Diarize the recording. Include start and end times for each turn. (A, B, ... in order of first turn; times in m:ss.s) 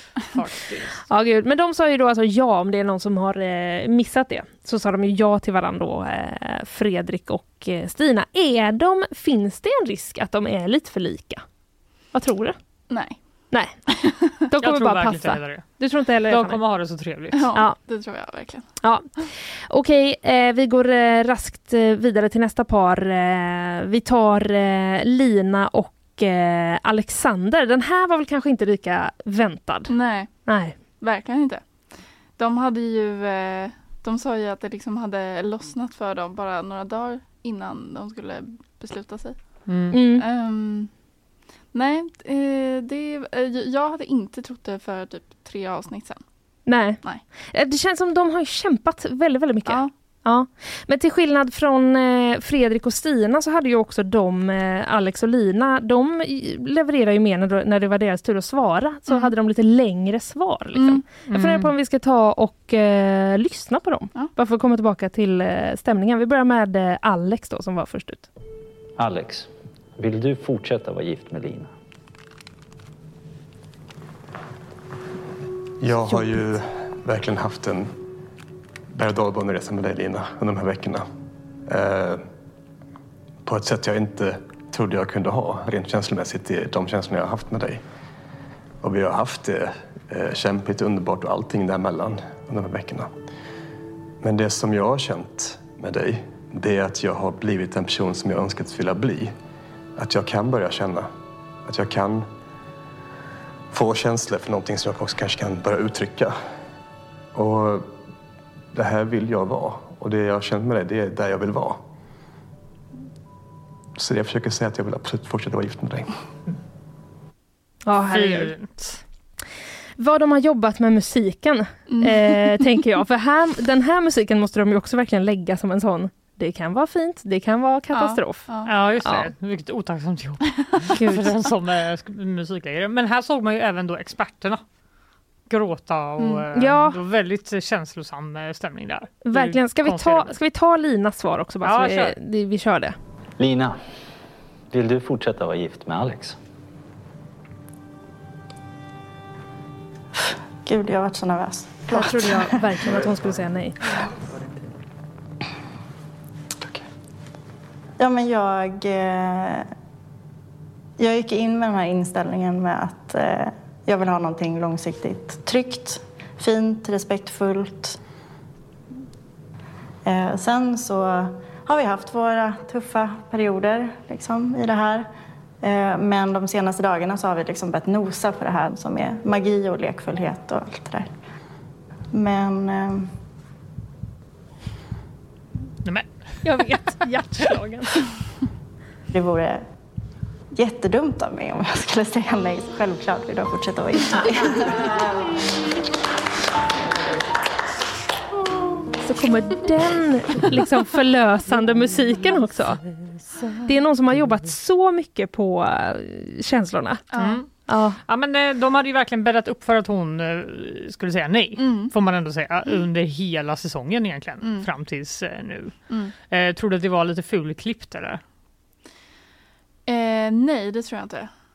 0:00.3-0:01.0 A
0:01.1-0:12.7 B
0:12.9-0:13.5 C
0:13.5-0:16.6 B
0:14.6-0:17.5 A
0:17.3-0:18.8 C
0:18.8-0:30.8 B
0:29.9-0:41.1 C
0:39.7-0:40.0 A
0:39.9-0:40.2 B
0:41.7-0:47.2 C
0:46.7-1:08.3 B
0:49.7-0:49.9 C
1:00.8-1:01.0 C
1:01.3-1:01.7 A
1:09.0-1:11.7 D
1:15.8-1:17.9 E
1:15.9-1:16.5 B
1:18.9-1:21.1 E
1:21.7-1:22.2 E
1:23.4-1:27.8 E
1:28.8-1:33.1 E
1:34.2-1:39.3 E
1:40.0-1:41.1 E
1:41.7-1:42.3 E
1:43.7-1:46.4 E
1:47.4-1:47.9 E
1:48.7-1:51.8 E
1:54.0-1:56.2 E
1:57.9-1:58.6 B
1:58.1-1:59.0 A
2:00.0-2:09.3 B
2:01.9-2:02.5 C
2:07.9-2:08.7 C
2:08.6-2:14.6 A
2:11.0-2:11.2 B
2:15.5-2:20.4 A
2:16.5-2:17.0 B
2:19.2-2:23.0 B
2:21.6-2:22.2 A
2:23.4-2:23.8 D
2:24.7-2:26.4 D
2:30.6-2:32.5 F
2:31.9-2:33.8 B
2:38.0-2:39.7 F
2:41.0-2:48.0 F
2:50.0-2:55.1 F
2:55.6-3:01.2 F
3:02.1-3:03.2 F
3:05.8-3:06.7 A
3:06.4-3:08.0 B
3:09.1-3:09.7 F
3:10.5-3:14.8 F
3:19.0-3:22.8 B
3:23.6-3:28.0 B
3:27.1-3:27.4 C
3:27.2-3:38.2 A
3:31.6-3:31.9 C
3:34.4-3:34.7 C
3:39.9-3:41.3 C